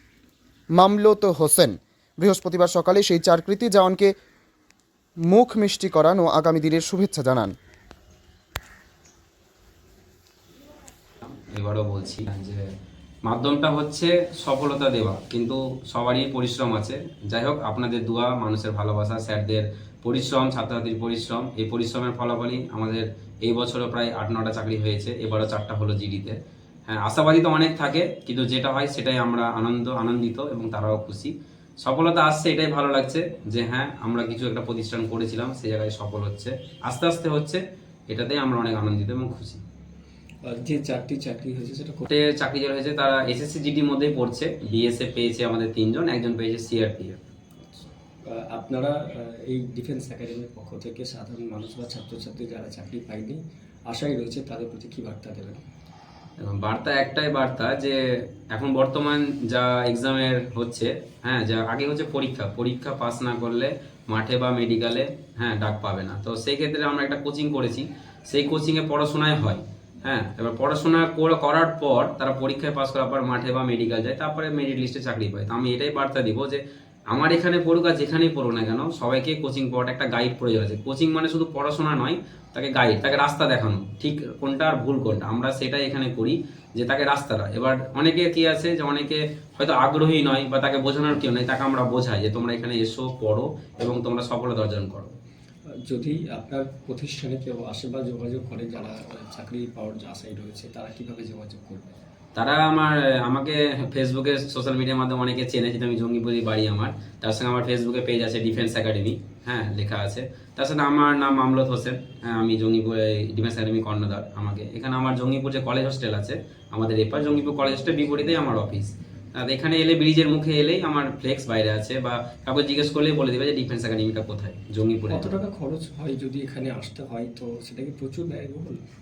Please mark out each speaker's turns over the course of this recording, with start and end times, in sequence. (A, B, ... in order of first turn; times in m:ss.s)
0:00.8-0:04.1 A
0:05.3-0:07.5 A
0:11.2-0:12.6 B
0:13.3-0:26.4 B
0:26.9-0:31.3 B
0:31.8-0:39.6 B
0:40.4-0:42.1 C
0:42.1-0:47.2 B
0:47.7-0:55.6 C
0:56.4-0:58.0 B
0:58.5-1:35.1 B
1:35.9-1:42.0 C
1:42.4-2:05.4 B
2:05.1-2:08.8 C